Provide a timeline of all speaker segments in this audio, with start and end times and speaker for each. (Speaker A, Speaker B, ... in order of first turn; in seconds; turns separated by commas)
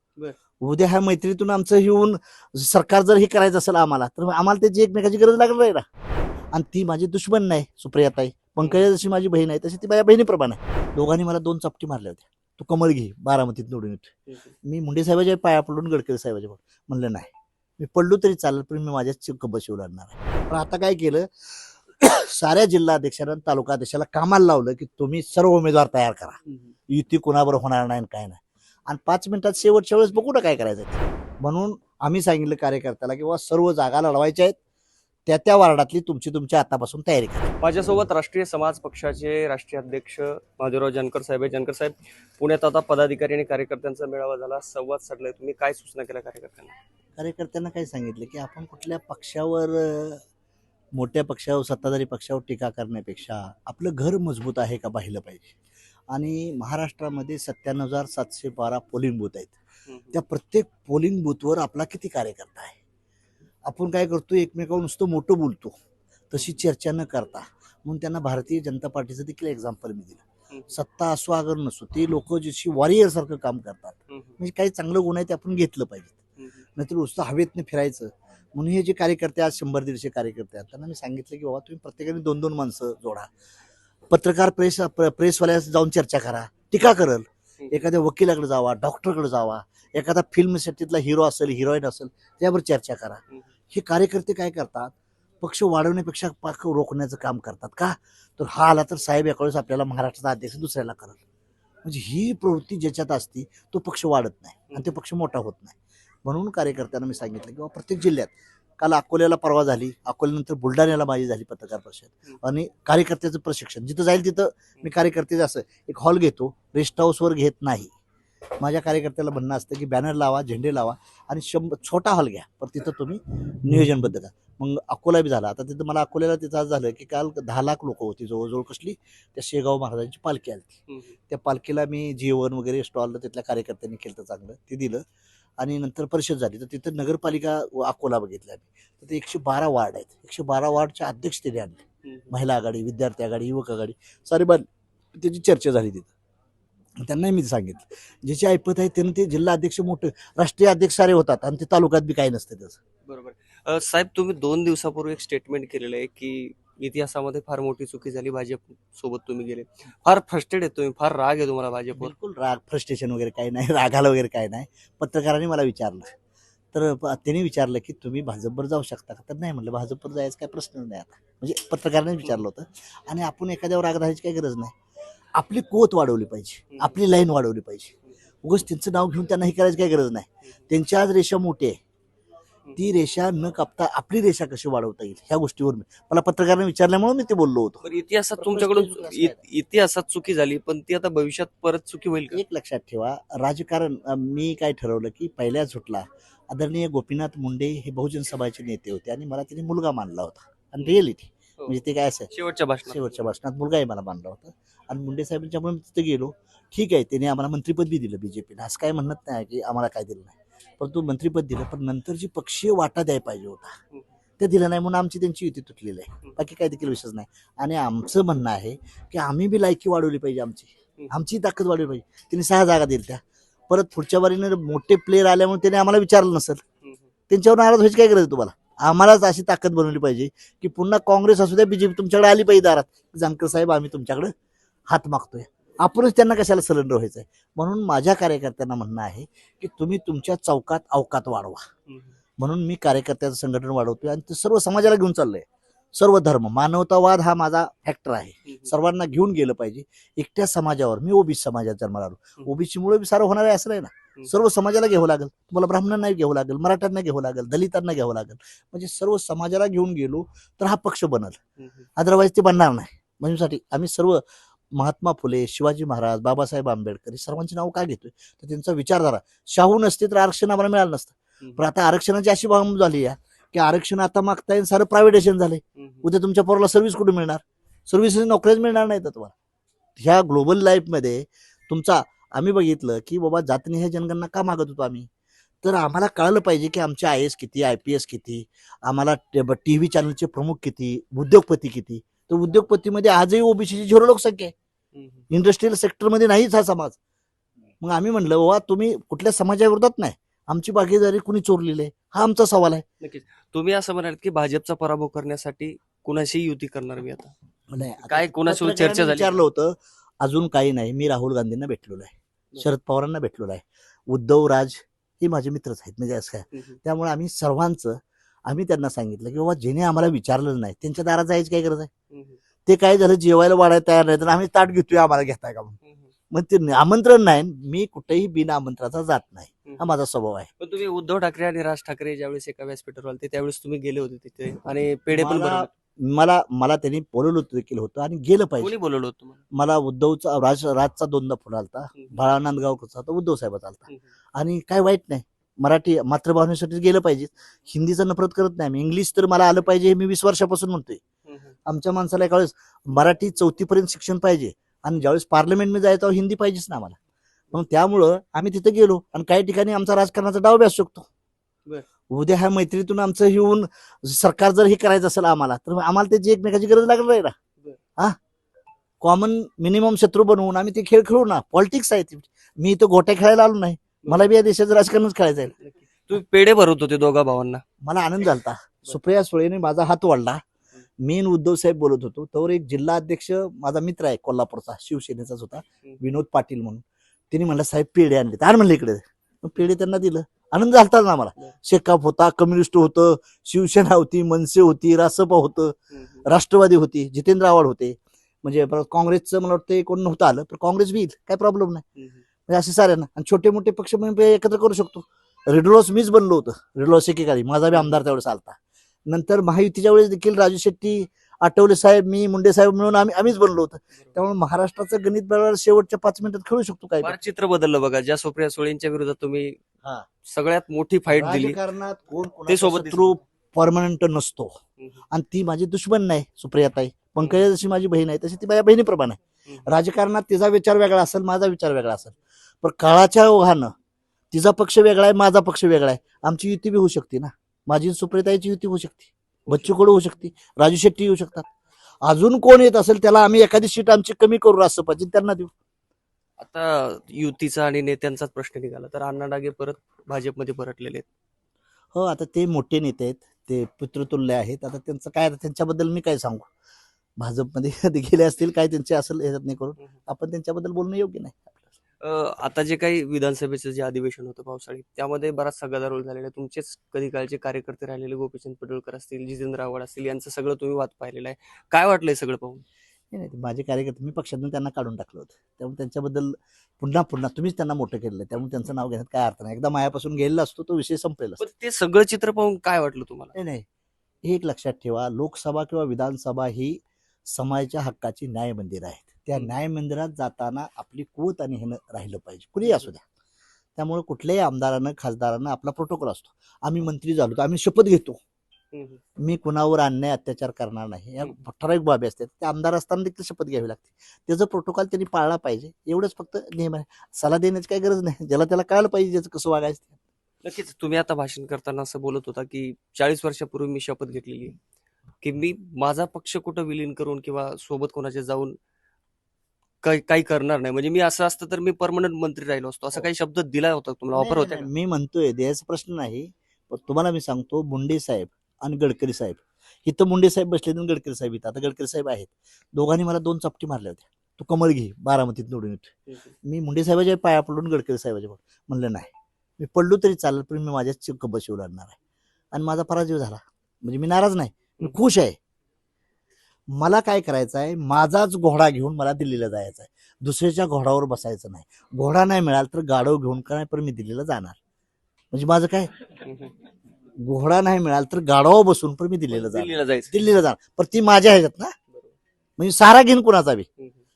Speaker A: 0.6-5.8, Speaker A: 6.5-14.1, Speaker B: 8.6-8.9, Speaker B: 14.3-14.5, Speaker A: 14.6-21.3, Speaker A: 22.0-26.4, Speaker A: 26.9-34.6, Speaker A: 35.3-37.5, Speaker B: 37.6-46.8, Speaker A: 47.2-50.2, Speaker A: 50.9-55.5, Speaker A: 56.1-59.5, Speaker B: 59.9-60.2, Speaker A: 60.1-62.8, Speaker A: 63.7-65.7, Speaker A: 66.3-76.2, Speaker B: 70.5-70.8, Speaker B: 74.1-74.4, Speaker B: 76.4-76.6, Speaker A: 76.8-83.3, Speaker A: 84.1-93.2, Speaker B: 87.6-87.8, Speaker A: 93.7-101.2, Speaker A: 101.8-117.9, Speaker B: 104.7-105.0, Speaker A: 118.6-130.8, Speaker B: 130.9-131.2, Speaker A: 131.3-135.0, Speaker A: 135.6-144.7, Speaker B: 142.0-142.4, Speaker A: 145.2-146.1, Speaker A: 147.0-152.8, Speaker B: 153.1-162.1, Speaker A: 161.9-166.1, Speaker A: 166.7-174.7, Speaker A: 175.3-181.8, Speaker B: 176.7-177.0, Speaker A: 182.8-187.8, Speaker B: 187.8-192.4, Speaker A: 188.4-189.4, Speaker A: 192.3-202.3, Speaker B: 202.3-203.3, Speaker A: 202.9-213.7, Speaker A: 214.4-226.6, Speaker A: 227.3-234.3, Speaker A: 234.9-241.6, Speaker B: 241.9-242.2, Speaker A: 242.4-261.4, Speaker B: 248.5-248.7, Speaker B: 261.6-261.9, Speaker A: 262.0-264.2, Speaker A: 264.7-279.3, Speaker B: 275.8-276.1, Speaker A: 280.0-285.1, Speaker A: 285.6-294.5, Speaker B: 294.9-295.2, Speaker A: 295.3-297.0, Speaker A: 297.8-302.8, Speaker B: 303.0-307.3, Speaker A: 307.7-321.9, Speaker B: 308.1-309.4, Speaker B: 322.1-322.4, Speaker A: 322.7-325.8, Speaker B: 325.8-326.1, Speaker A: 326.3-330.5, Speaker B: 329.6-329.9, Speaker B: 330.6-335.7, Speaker A: 335.1-338.7, Speaker B: 338.6-339.4, Speaker A: 339.5-351.0, Speaker B: 341.9-342.2, Speaker B: 351.2-351.6, Speaker A: 351.6-356.9, Speaker A: 357.5-361.1, Speaker A: 362.1-367.3, Speaker A: 369.0-375.5, Speaker B: 374.1-374.3, Speaker B: 375.5-377.6, Speaker A: 377.8-380.4, Speaker A: 381.0-401.8, Speaker B: 395.9-396.2, Speaker B: 402.0-402.2, Speaker A: 402.5-408.6, Speaker B: 407.7-408.0, Speaker A: 409.1-417.2, Speaker B: 417.0-419.6, Speaker B: 420.2-421.6, Speaker A: 421.1-424.6, Speaker B: 422.5-423.2, Speaker A: 425.1-433.7, Speaker B: 427.2-427.4, Speaker B: 429.4-429.7, Speaker A: 434.3-441.5, Speaker B: 439.5-439.8, Speaker A: 442.1-445.5, Speaker B: 446.4-451.1, Speaker A: 451.9-456.5, Speaker A: 457.2-461.6, Speaker B: 462.0-472.6, Speaker A: 473.1-481.4, Speaker B: 481.4-483.3, Speaker A: 483.3-483.6, Speaker A: 484.2-493.0, Speaker B: 492.6-492.9, Speaker A: 493.8-498.2, Speaker B: 498.7-499.0, Speaker A: 499.2-510.0, Speaker B: 510.4-514.5, Speaker B: 515.2-518.6, Speaker B: 519.8-524.7, Speaker A: 524.1-542.0, Speaker A: 542.5-545.4, Speaker A: 546.7-554.6, Speaker A: 555.3-555.9, Speaker B: 556.2-556.5, Speaker A: 557.2-561.7, Speaker B: 559.3-560.2, Speaker A: 562.6-563.7